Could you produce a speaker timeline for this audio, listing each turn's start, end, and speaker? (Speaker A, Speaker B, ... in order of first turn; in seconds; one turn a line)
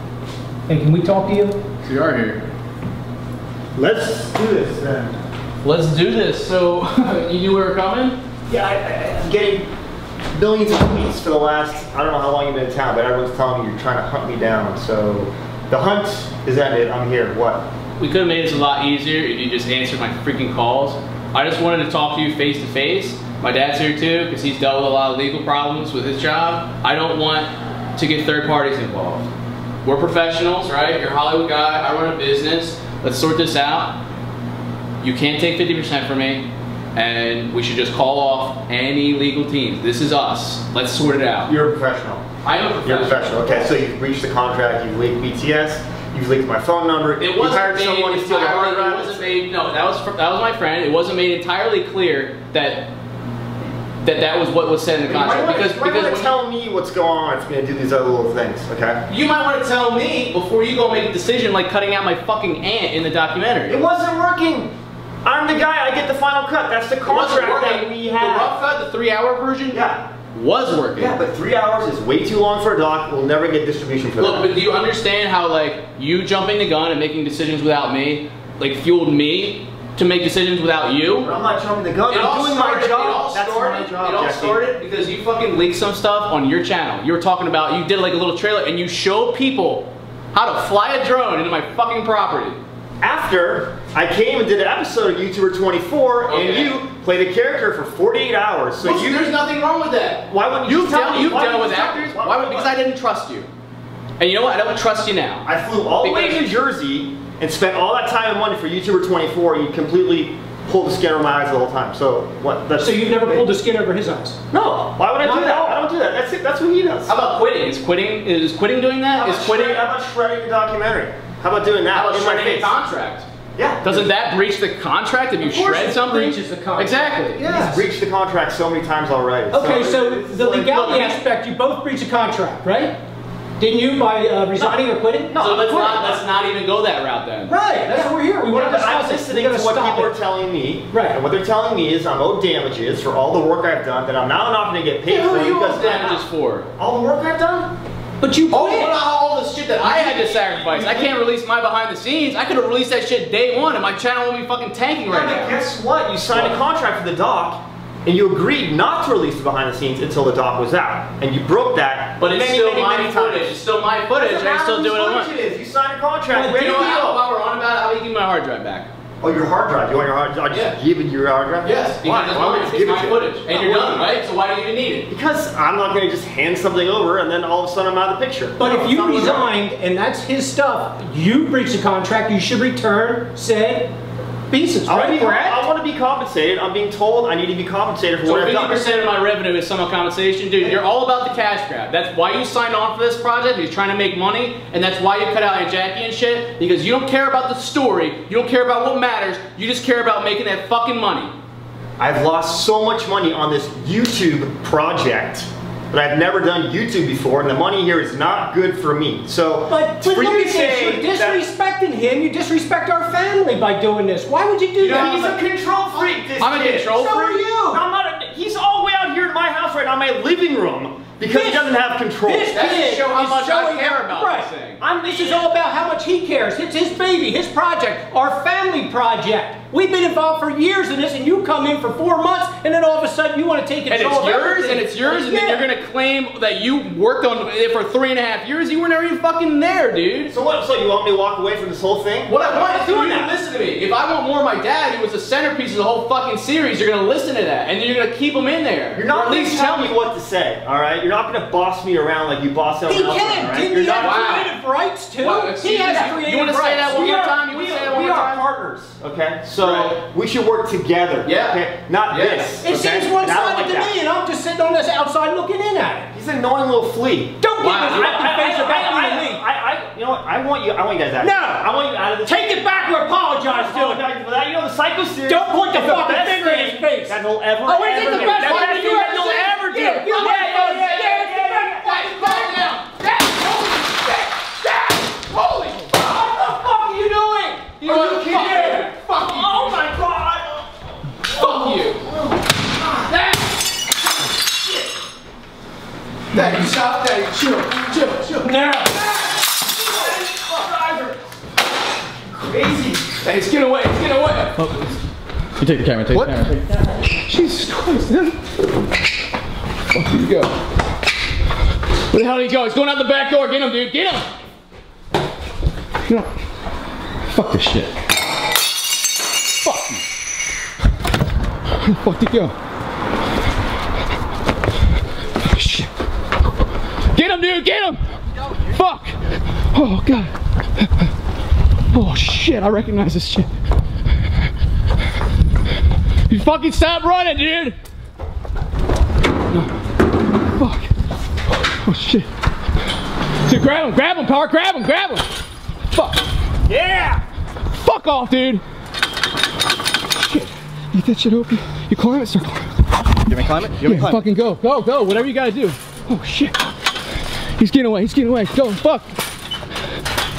Speaker A: 0.7-1.6
Speaker B: 1.8-2.4
Speaker C: 3.8-5.2
Speaker B: 5.6-8.2
Speaker C: 8.5-9.7
Speaker C: 10.3-17.6
Speaker B: 18.0-29.3
Speaker B: 29.8-34.0
Speaker B: 35.0-41.5
Speaker C: 41.5-42.2
Speaker B: 42.4-43.7
Speaker C: 42.8-49.3
Speaker B: 47.2-52.9
Speaker B: 54.0-56.4
Speaker C: 55.1-59.0
Speaker B: 59.1-63.8
Speaker C: 63.7-64.7
Speaker C: 65.2-68.5
Speaker B: 67.0-71.2
Speaker C: 69.7-70.0
Speaker C: 71.0-74.5
Speaker B: 74.2-81.3
Speaker C: 81.2-84.6
Speaker B: 82.1-92.6
Speaker C: 93.0-99.3
Speaker B: 96.3-96.8
Speaker B: 98.8-103.5
Speaker C: 100.3-102.8
Speaker B: 104.2-105.5
Speaker C: 105.5-113.5
Speaker B: 106.0-106.4
Speaker A: 112.8-114.4
Speaker C: 114.5-117.1
Speaker A: 115.2-115.8
Speaker B: 117.1-119.9
Speaker C: 119.1-122.8
Speaker B: 121.9-123.2
Speaker C: 123.5-124.1
Speaker B: 123.8-127.4
Speaker A: 125.4-127.9
Speaker C: 127.4-131.1
Speaker A: 129.5-132.9
Speaker B: 130.8-131.2
Speaker A: 133.6-135.3
Speaker C: 134.6-136.2
Speaker B: 135.4-137.5
Speaker A: 137.5-140.1
Speaker C: 138.5-146.2
Speaker A: 140.9-141.2
Speaker B: 145.1-146.7
Speaker C: 146.8-147.7
Speaker A: 148.2-149.0
Speaker B: 148.5-155.6
Speaker A: 149.8-151.1
Speaker C: 155.1-163.5
Speaker B: 156.3-156.6
Speaker B: 162.2-165.3
Speaker C: 164.2-167.2
Speaker B: 166.3-168.9
Speaker C: 169.2-174.2
Speaker B: 170.5-170.8
Speaker B: 171.6-175.1
Speaker C: 175.1-179.5
Speaker A: 178.6-183.9
Speaker A: 184.5-185.7
Speaker C: 184.9-188.8
Speaker B: 188.2-201.3
Speaker C: 202.0-211.4
Speaker A: 209.7-215.4
Speaker B: 214.8-215.3
Speaker C: 214.8-222.5
Speaker B: 216.4-217.3
Speaker A: 216.9-217.8
Speaker A: 221.3-224.5
Speaker B: 222.5-224.8
Speaker C: 224.8-225.5
Speaker A: 225.0-235.7
Speaker B: 233.9-240.3
Speaker C: 240.3-242.6
Speaker B: 242.3-249.9
Speaker A: 242.4-243.3
Speaker C: 248.9-254.3
Speaker A: 252.8-257.4
Speaker B: 253.8-254.5
Speaker B: 255.2-258.4
Speaker C: 256.9-263.9
Speaker B: 259.6-260.0
Speaker B: 261.2-262.5
Speaker A: 262.6-266.1
Speaker C: 266.1-267.4
Speaker A: 267.4-269.4
Speaker B: 267.6-268.2
Speaker C: 267.9-272.8
Speaker A: 271.2-271.6
Speaker A: 272.2-274.0
Speaker C: 273.4-279.5
Speaker A: 275.2-282.8
Speaker B: 278.0-286.3
Speaker C: 280.1-281.9
Speaker A: 286.0-288.9
Speaker B: 287.8-289.8
Speaker C: 287.8-290.7
Speaker B: 291.3-292.0
Speaker C: 291.4-292.4
Speaker B: 293.0-293.6
Speaker B: 296.3-299.1
Speaker A: 298.4-298.9
Speaker C: 299.8-301.2
Speaker C: 302.2-303.1
Speaker B: 303.2-304.7
Speaker D: 305.6-306.6
Speaker B: 306.1-306.6
Speaker B: 307.2-308.4
Speaker B: 309.9-310.6
Speaker B: 312.1-314.3
Speaker B: 316.0-316.3
Speaker B: 317.3-317.9
Speaker B: 319.6-320.0
Speaker B: 321.8-322.5
Speaker B: 325.4-325.9
Speaker B: 327.1-328.0
Speaker B: 328.6-329.2
Speaker B: 329.7-331.0
Speaker B: 331.9-333.5
Speaker B: 336.3-337.8
Speaker B: 340.6-340.9
Speaker B: 341.6-342.3
Speaker B: 343.4-345.3
Speaker B: 345.9-346.2
Speaker C: 346.7-347.2
Speaker B: 347.7-348.6
Speaker B: 350.2-352.7
Speaker D: 353.3-354.1
Speaker C: 353.4-353.8
Speaker B: 353.8-356.5
Speaker B: 357.6-359.2